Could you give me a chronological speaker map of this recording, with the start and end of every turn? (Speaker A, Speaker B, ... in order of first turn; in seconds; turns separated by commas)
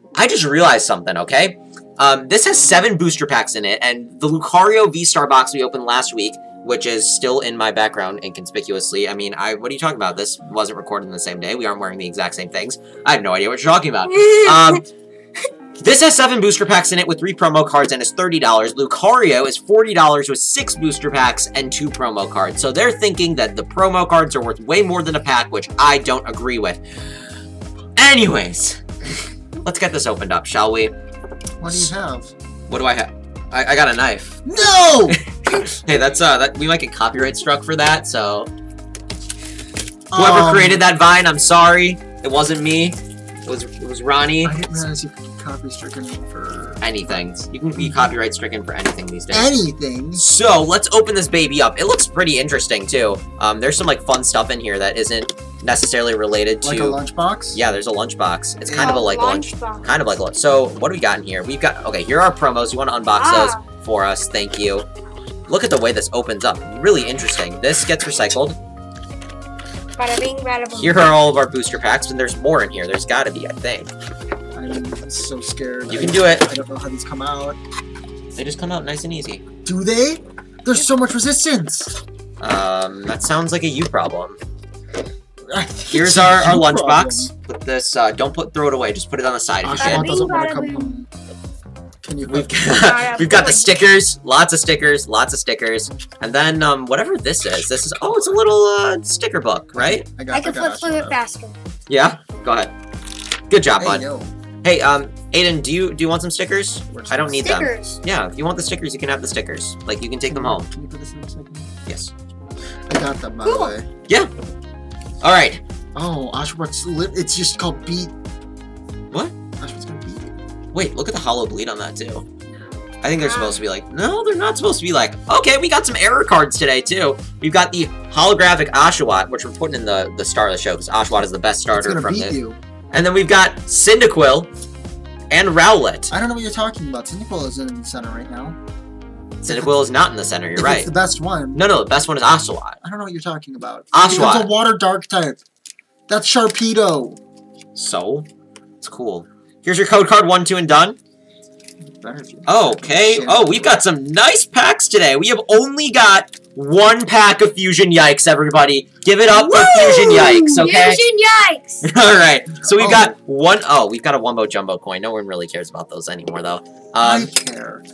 Speaker A: 0.1-14.8, Speaker B: 14.1-14.8, Speaker A: 15.8-26.8, Speaker A: 27.9-30.9, Speaker C: 31.6-32.3, Speaker A: 31.6-31.9, Speaker A: 32.7-34.4, Speaker C: 34.5-35.2, Speaker A: 35.1-38.5, Speaker C: 40.1-40.8, Speaker A: 40.1-44.7, Speaker C: 44.4-46.9, Speaker A: 46.8-49.6, Speaker C: 49.3-50.3, Speaker A: 50.1-64.8, Speaker C: 56.6-57.6, Speaker B: 58.7-60.0, Speaker B: 63.1-63.6, Speaker A: 65.5-68.6, Speaker B: 70.0-71.1, Speaker A: 70.7-73.9, Speaker C: 74.5-77.6, Speaker A: 75.9-76.5, Speaker A: 78.3-79.4, Speaker C: 79.6-81.9, Speaker A: 82.4-84.4, Speaker C: 85.5-87.3, Speaker A: 85.9-90.1, Speaker C: 89.6-91.1, Speaker B: 89.8-91.0, Speaker C: 92.0-92.6, Speaker A: 92.3-100.1, Speaker B: 92.8-93.7, Speaker C: 99.8-101.2, Speaker B: 100.3-101.5, Speaker A: 101.9-102.7, Speaker A: 103.5-104.0, Speaker C: 103.8-104.3, Speaker A: 104.6-110.7, Speaker C: 106.9-107.4, Speaker B: 107.4-108.0, Speaker C: 110.3-111.7, Speaker A: 111.8-112.1, Speaker C: 112.9-113.8, Speaker B: 113.4-113.7, Speaker A: 115.2-115.6, Speaker C: 115.9-118.1, Speaker C: 119.6-120.3, Speaker A: 120.7-122.2, Speaker A: 123.0-132.4, Speaker B: 123.2-123.6, Speaker C: 131.7-132.6, Speaker A: 132.9-134.5, Speaker A: 135.3-136.1, Speaker C: 136.1-138.6, Speaker A: 139.4-140.9, Speaker C: 139.4-139.8, Speaker C: 140.6-141.7, Speaker A: 141.5-142.8, Speaker C: 142.8-145.4, Speaker A: 143.9-144.5, Speaker C: 146.1-147.2, Speaker A: 147.7-148.3, Speaker A: 148.8-151.0, Speaker C: 151.8-153.8, Speaker A: 152.4-161.0, Speaker B: 159.3-161.9, Speaker A: 161.8-167.3, Speaker C: 162.7-163.1, Speaker C: 167.0-167.8